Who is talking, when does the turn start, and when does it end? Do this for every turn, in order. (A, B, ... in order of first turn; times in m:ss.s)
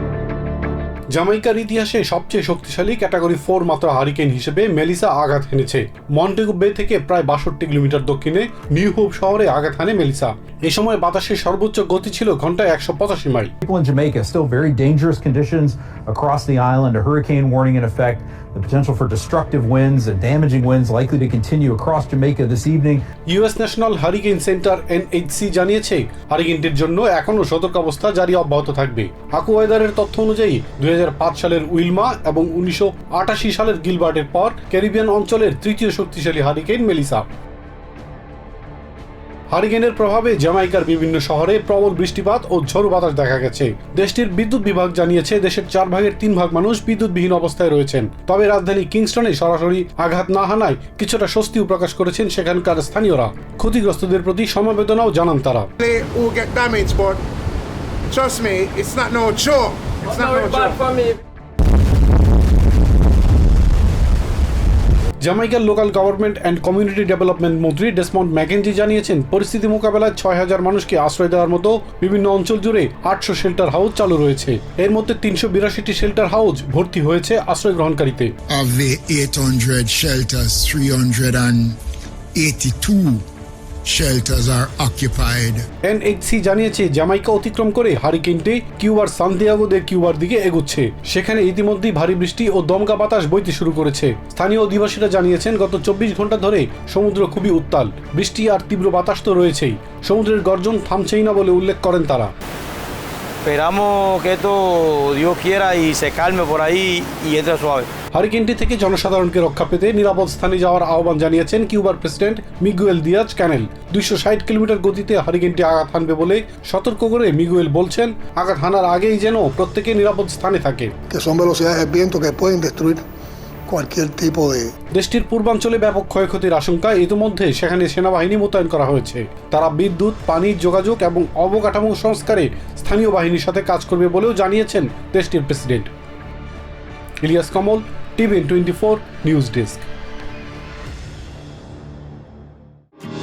0:01.1-0:13.5 A
0:13.6-0:23.0 B
0:23.3-0:37.3 A
0:39.5-0:55.7 A
0:55.8-0:57.2 C
0:58.1-1:00.9 C
1:05.2-1:18.3 A
1:18.6-1:21.8 D
1:22.4-1:23.2 D
1:23.9-1:25.6 D
1:25.8-1:42.3 A
1:43.4-1:47.9 E
1:48.1-2:00.9 A
2:01.1-2:03.0 F
2:03.7-2:04.7 F
2:04.9-2:15.9 A
2:17.2-2:19.9 A